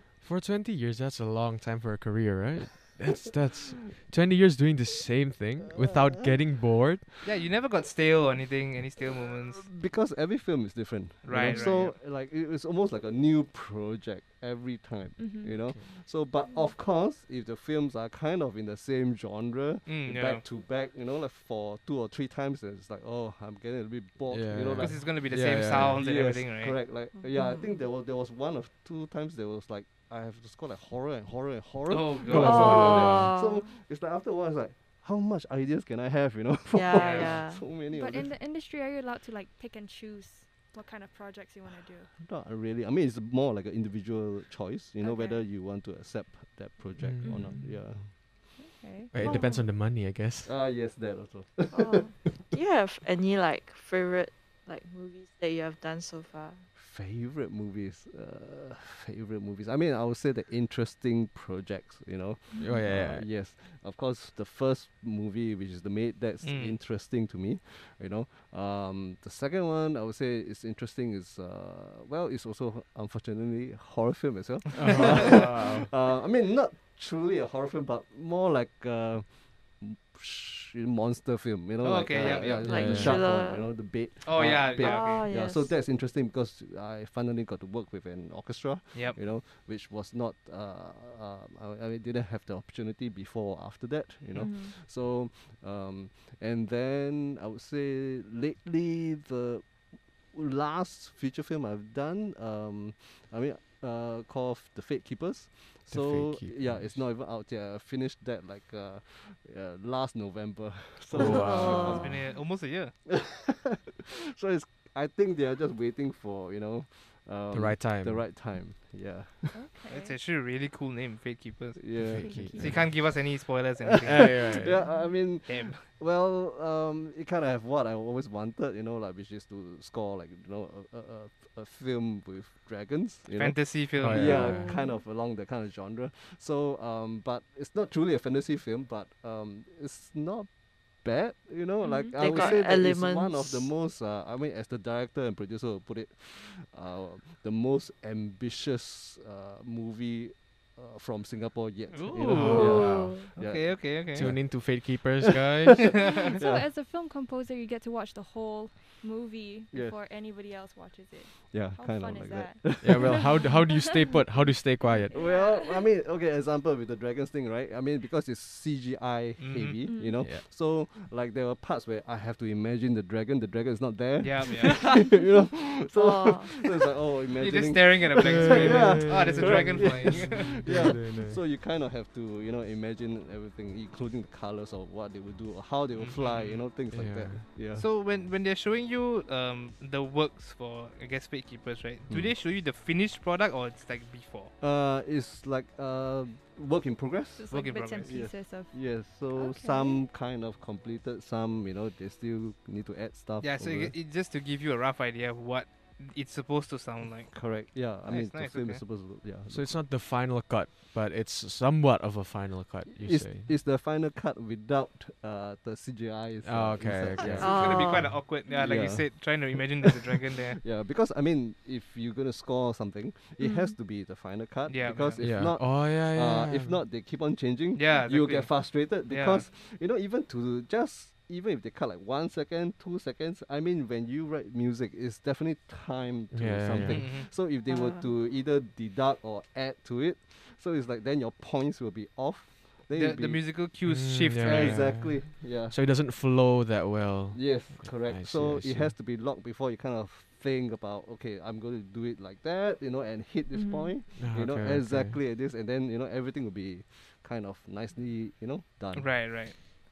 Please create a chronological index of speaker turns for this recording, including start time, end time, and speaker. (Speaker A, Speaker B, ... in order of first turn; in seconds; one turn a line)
Speaker A: 0.2-7.1
Speaker B: 5.8-6.3
Speaker C: 7.2-9.7
Speaker B: 9.1-38.4
Speaker C: 11.2-12.0
Speaker D: 15.2-15.8
Speaker C: 19.9-20.4
Speaker A: 24.3-26.0
Speaker C: 24.8-26.8
Speaker E: 27.1-27.7
Speaker C: 31.9-33.1
Speaker A: 32.3-33.3
Speaker E: 32.3-33.7
Speaker E: 36.7-37.7
Speaker C: 36.9-37.4
Speaker D: 37.9-42.1
Speaker B: 42.1-48.4
Speaker D: 45.0-45.4
Speaker A: 47.0-47.7
Speaker D: 47.2-49.6
Speaker A: 49.1-50.5
Speaker B: 49.2-49.6
Speaker B: 50.4-52.4
Speaker E: 51.7-56.7
Speaker B: 56.8-112.3
Speaker D: 62.5-62.9
Speaker A: 62.6-63.3
Speaker C: 66.4-66.8
Speaker A: 74.8-75.9
Speaker C: 81.8-82.9
Speaker E: 82.2-83.8
Speaker A: 82.6-83.3
Speaker C: 84.2-85.3
Speaker E: 84.8-85.7
Speaker C: 88.9-89.2
Speaker D: 94.3-94.7
Speaker A: 105.9-107.0
Speaker A: 111.1-112.1
Speaker E: 111.2-112.2
Speaker C: 111.7-112.9
Speaker B: 113.1-119.7
Speaker A: 117.5-118.3
Speaker D: 119.5-120.2
Speaker C: 119.9-124.6
Speaker B: 121.8-156.7
Speaker A: 122.0-122.9
Speaker D: 122.2-123.0
Speaker A: 124.0-124.9
Speaker D: 124.7-125.1
Speaker C: 125.3-125.8
Speaker C: 133.3-134.5
Speaker A: 134.0-134.7
Speaker E: 134.2-135.0
Speaker D: 141.8-142.5
Speaker E: 142.1-143.7
Speaker C: 151.9-154.3
Speaker A: 152.1-153.2
Speaker E: 152.5-153.3
Speaker A: 154.1-156.0
Speaker D: 156.0-163.9
Speaker B: 159.7-160.0
Speaker B: 161.5-163.2
Speaker A: 162.8-165.2
Speaker D: 165.0-165.8
Speaker B: 165.1-187.9
Speaker C: 169.4-169.8
Speaker D: 169.8-170.3
Speaker C: 174.2-174.9
Speaker E: 175.9-176.6
Speaker C: 177.4-180.9
Speaker A: 178.2-181.4
Speaker C: 186.0-186.7
Speaker A: 186.9-187.5
Speaker C: 187.8-194.5
Speaker B: 194.6-204.0
Speaker D: 197.4-200.0
Speaker C: 197.5-198.3
Speaker C: 203.4-208.9
Speaker B: 207.3-209.8
Speaker A: 209.5-213.5
Speaker B: 212.9-219.9
Speaker A: 216.4-218.1
Speaker C: 217.3-220.6
Speaker E: 217.4-218.2
Speaker D: 218.4-218.7
Speaker B: 220.6-243.5
Speaker D: 223.4-223.8
Speaker C: 224.7-225.3
Speaker A: 225.2-226.8
Speaker C: 227.7-229.4
Speaker A: 236.3-237.1
Speaker C: 236.9-237.3
Speaker E: 237.7-238.1
Speaker C: 242.9-245.0
Speaker A: 243.8-248.9
Speaker B: 244.4-245.8
Speaker B: 247.3-259.1
Speaker D: 253.5-254.0
Speaker A: 254.2-255.2
Speaker C: 258.9-259.6